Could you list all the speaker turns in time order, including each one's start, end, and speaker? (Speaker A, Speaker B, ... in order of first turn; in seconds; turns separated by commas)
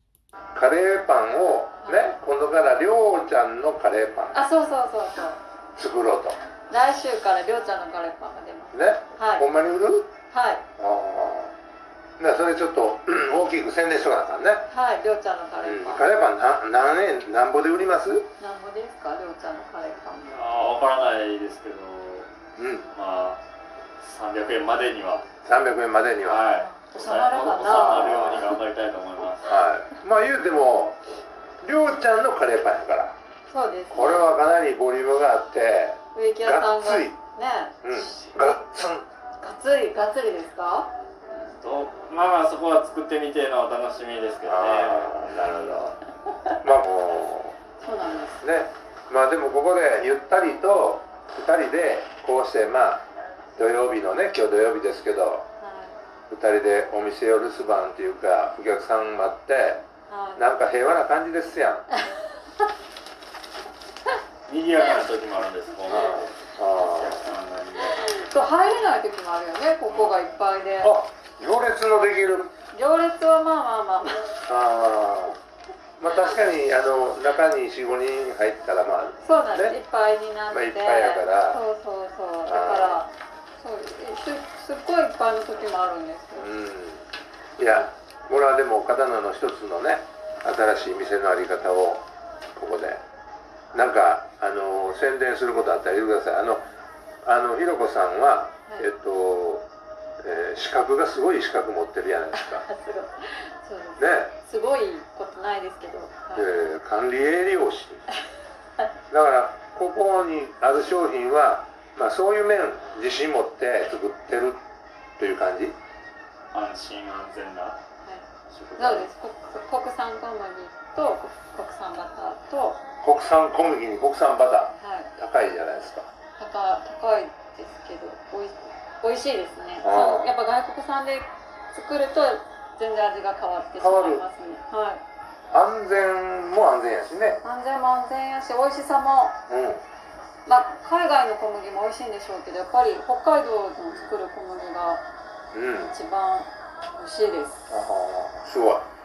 Speaker A: 0.5-4.4, Speaker B: 1.8-2.1, Speaker B: 4.3-5.4, Speaker A: 5.8-6.4, Speaker B: 6.7-9.5, Speaker A: 8.7-10.1, Speaker B: 10.3-10.6, Speaker A: 10.8-11.5, Speaker A: 12.2-14.7, Speaker B: 14.7-16.1, Speaker A: 15.6-18.3, Speaker B: 18.4-20.3, Speaker C: 20.3-22.3, Speaker A: 22.6-22.9, Speaker C: 22.9-23.4, Speaker C: 24.0-25.3, Speaker A: 25.4-26.4, Speaker C: 26.2-29.5, Speaker B: 26.8-28.4, Speaker A: 27.6-28.5, Speaker A: 29.5-31.0, Speaker A: 31.6-33.1, Speaker B: 33.5-34.3, Speaker A: 33.9-37.2, Speaker B: 36.1-38.6, Speaker A: 37.8-39.1, Speaker B: 39.4-40.9, Speaker C: 41.4-46.0, Speaker A: 44.5-45.9, Speaker A: 46.6-47.6, Speaker B: 47.8-48.4, Speaker A: 48.4-53.0, Speaker A: 53.6-55.5, Speaker B: 55.6-56.0, Speaker A: 56.3-59.9, Speaker B: 60.1-60.4, Speaker A: 60.4-61.9, Speaker C: 64.5-68.3, Speaker A: 65.9-67.3, Speaker B: 68.1-70.9, Speaker C: 69.9-70.2, Speaker A: 70.8-72.5, Speaker B: 72.7-74.4, Speaker A: 74.5-75.4, Speaker A: 76.0-79.8, Speaker B: 79.2-86.5, Speaker A: 80.5-81.6, Speaker A: 82.5-83.0, Speaker A: 86.4-87.1, Speaker A: 87.6-93.0, Speaker A: 93.7-96.7, Speaker A: 97.2-99.7, Speaker A: 100.2-102.7, Speaker B: 102.3-106.5, Speaker A: 104.0-104.3, Speaker A: 106.3-108.0, Speaker A: 109.1-114.6, Speaker A: 115.2-115.8, Speaker C: 116.5-117.8, Speaker C: 118.5-119.1, Speaker B: 118.8-122.8, Speaker A: 123.0-126.1, Speaker B: 124.8-125.1, Speaker B: 126.4-135.0, Speaker A: 129.8-130.3, Speaker A: 133.8-134.2, Speaker A: 135.5-137.4, Speaker B: 137.4-139.3, Speaker A: 139.5-139.8, Speaker B: 140.5-145.0, Speaker A: 145.5-145.9, Speaker B: 145.8-147.6, Speaker A: 147.7-148.9